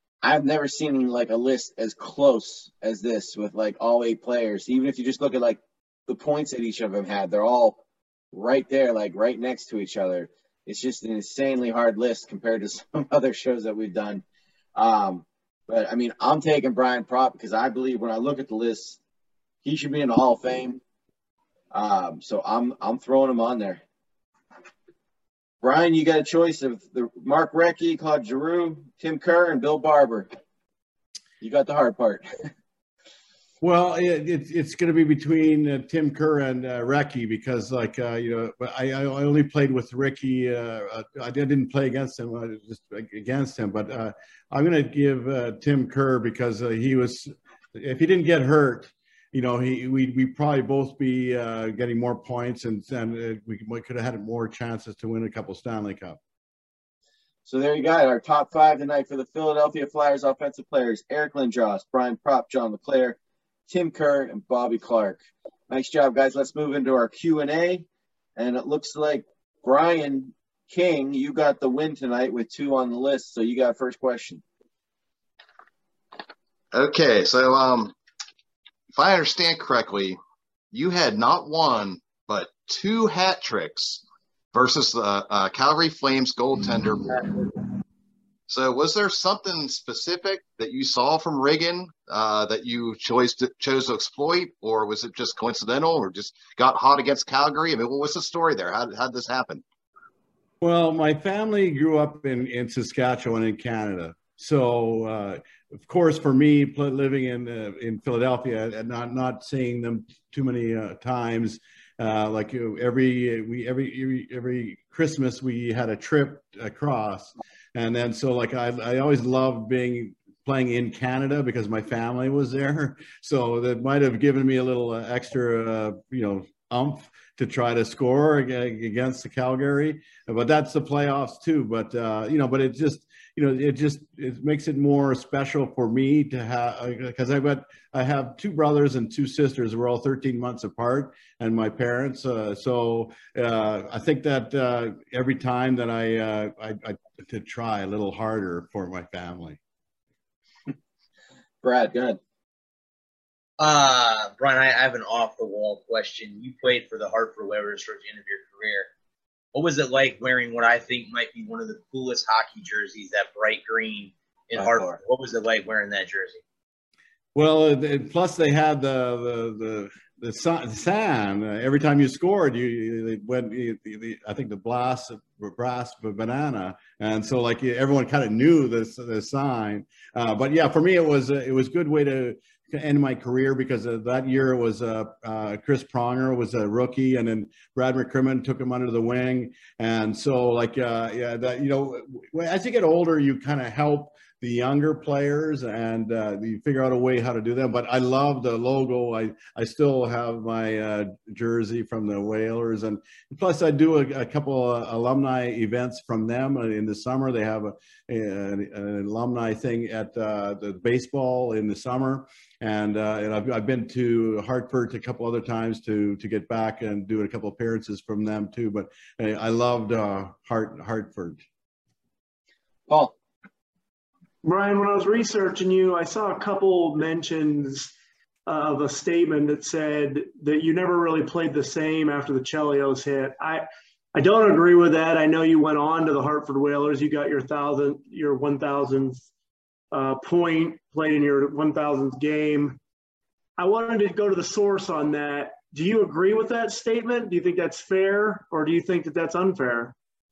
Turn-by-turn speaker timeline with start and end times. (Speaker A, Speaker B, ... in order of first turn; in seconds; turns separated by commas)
Speaker A: 0.2-7.8, Speaker A: 8.3-14.2, Speaker A: 14.8-19.0, Speaker A: 19.6-20.8, Speaker A: 21.7-23.8, Speaker A: 25.6-30.3, Speaker A: 31.4-32.5, Speaker B: 33.6-56.2, Speaker A: 57.5-63.2, Speaker A: 63.7-67.8, Speaker A: 68.3-74.4, Speaker C: 76.7-77.9, Speaker C: 79.0-80.2, Speaker C: 80.7-87.3, Speaker C: 88.5-99.6, Speaker B: 100.6-149.6, Speaker A: 151.6-152.2, Speaker D: 153.6-158.9, Speaker D: 159.5-166.4, Speaker A: 164.6-164.9, Speaker B: 167.3-221.4, Speaker A: 222.9-223.1, Speaker E: 224.4-227.9, Speaker E: 228.4-239.2, Speaker E: 239.9-242.8, Speaker E: 243.6-249.9